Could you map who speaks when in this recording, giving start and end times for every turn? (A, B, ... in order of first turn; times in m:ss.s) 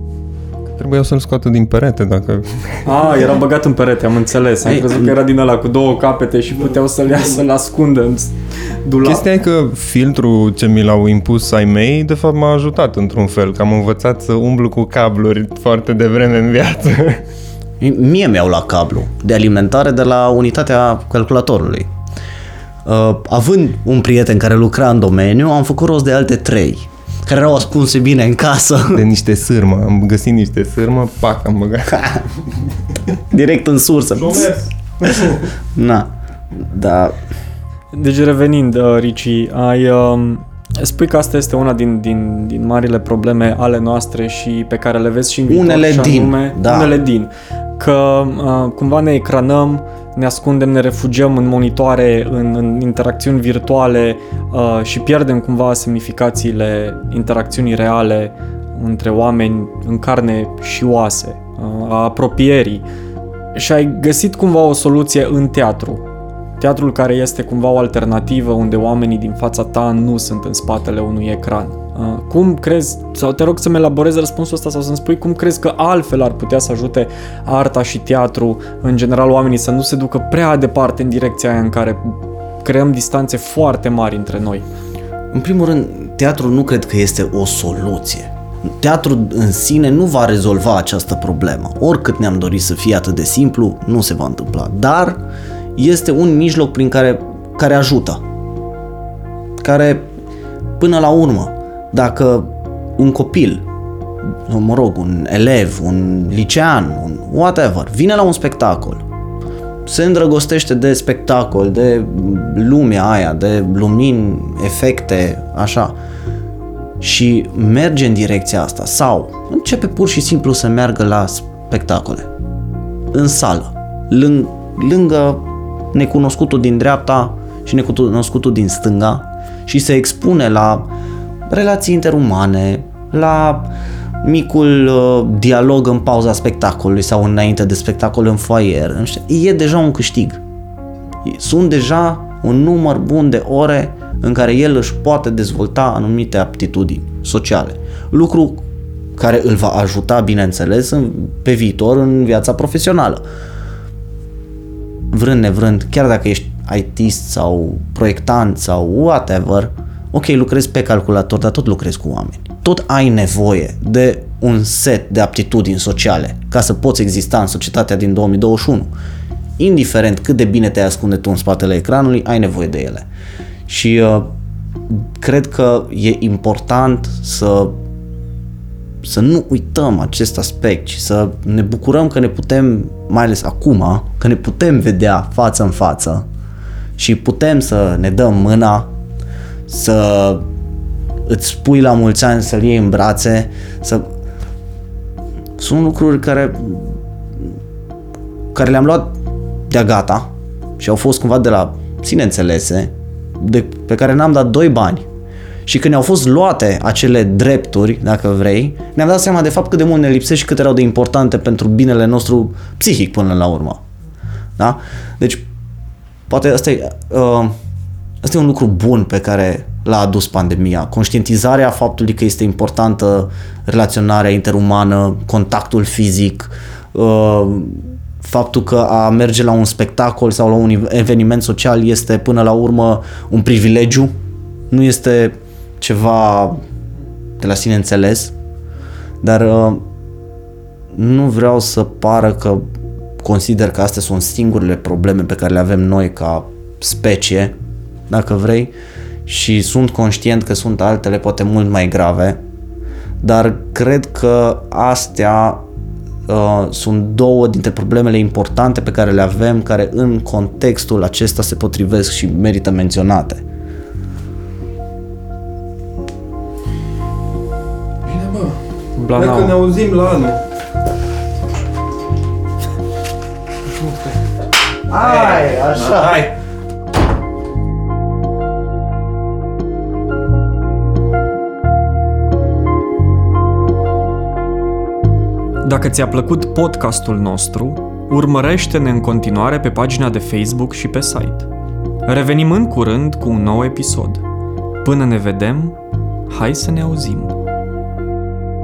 0:00.7-0:02.9 A
0:02.8-0:09.3 B
0:04.6-0:05.2 C
0:09.0-0:17.2 A
0:17.8-0:21.9 C
0:22.8-0:29.0 C
0:28.9-0:32.2 A
0:33.2-0:37.2 C
0:37.9-1:02.8 B
0:45.5-0:47.0 C
1:03.5-1:06.0 B
1:06.6-1:24.7 B
1:25.3-1:35.2 C
1:35.8-1:38.2 C
1:39.6-1:40.1 C
1:40.8-1:43.7 C
1:44.2-1:49.0 C
1:49.9-1:56.0 C
1:57.0-2:02.3 C
2:03.1-2:10.9 C
2:11.5-2:20.4 C
2:21.2-2:33.2 C
2:35.1-2:48.9 C
2:49.6-2:53.1 C
2:53.7-2:54.3 C
2:54.9-2:57.8 C
2:59.0-3:06.2 C
3:07.0-3:08.9 C
3:09.7-3:10.5 C
3:11.3-3:14.1 C
3:15.6-3:17.5 C
3:18.5-3:19.2 C
3:19.7-3:20.3 C
3:20.8-3:25.1 C
3:25.7-3:33.8 C
3:34.6-3:35.5 C
3:36.3-3:37.5 C
3:38.2-3:54.2 C
3:54.7-3:56.6 C
3:57.4-3:58.3 C
3:59.2-3:59.8 C
4:00.9-4:02.6 C
4:03.2-4:07.5 C
4:08.1-4:08.7 C
4:09.3-4:12.4 C
4:13.2-4:15.6 C
4:16.3-4:23.4 C
4:28.0-4:28.6 A
4:29.0-4:29.6 B
4:29.2-4:30.4 A
4:34.9-4:36.3 C
4:45.6-4:51.5 B
4:52.1-4:54.2 B
4:54.8-4:57.4 B